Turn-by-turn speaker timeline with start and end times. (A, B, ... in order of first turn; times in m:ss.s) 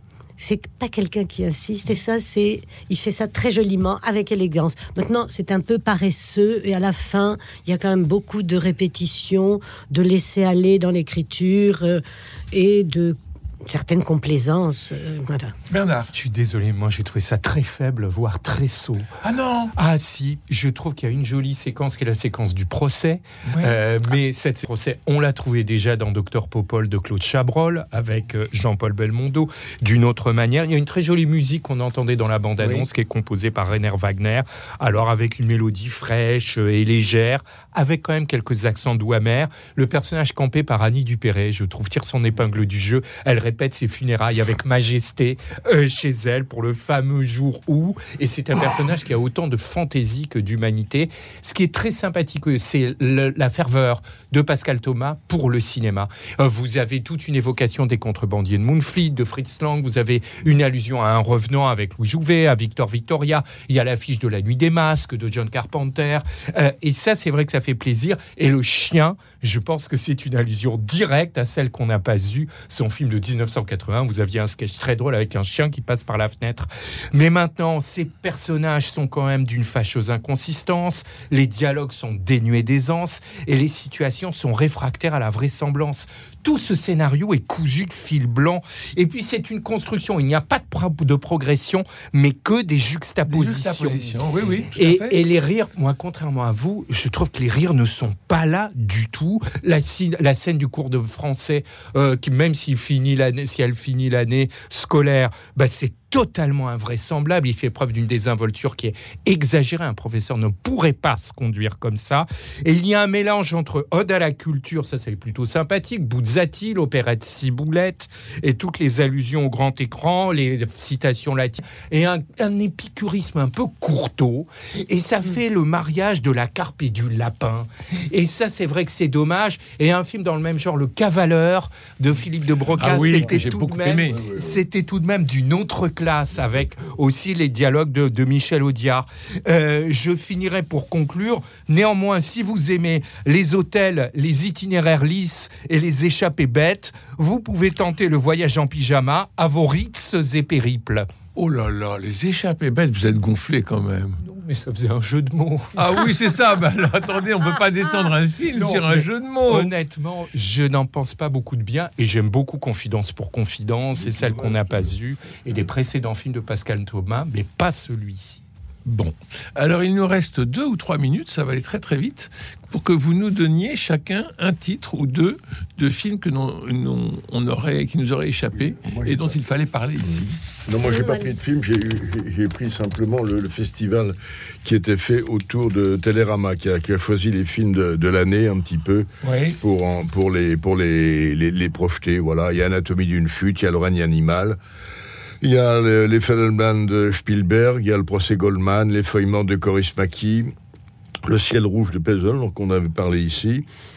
0:00.4-0:15.5 A
0:15.7-0:16.1 B
0:16.1-0:19.1 C
0:19.2-0:19.7 B
0:19.8-1:34.1 C
0:23.4-0:23.7 B
0:32.6-0:32.9 B
1:33.3-1:35.2 B
1:34.8-2:31.1 C
2:12.8-2:14.2 B
2:13.1-2:13.4 D
2:31.3-2:34.2 B
2:34.2-2:36.0 C
2:35.8-2:39.7 B
2:38.5-2:48.4 C
2:44.0-2:44.9 D
2:48.8-3:00.4 B
2:58.7-2:59.4 D
3:00.0-3:14.6 D
3:00.8-3:01.3 A
3:09.2-3:09.6 B
3:15.4-3:20.5 D
3:21.2-3:23.6 D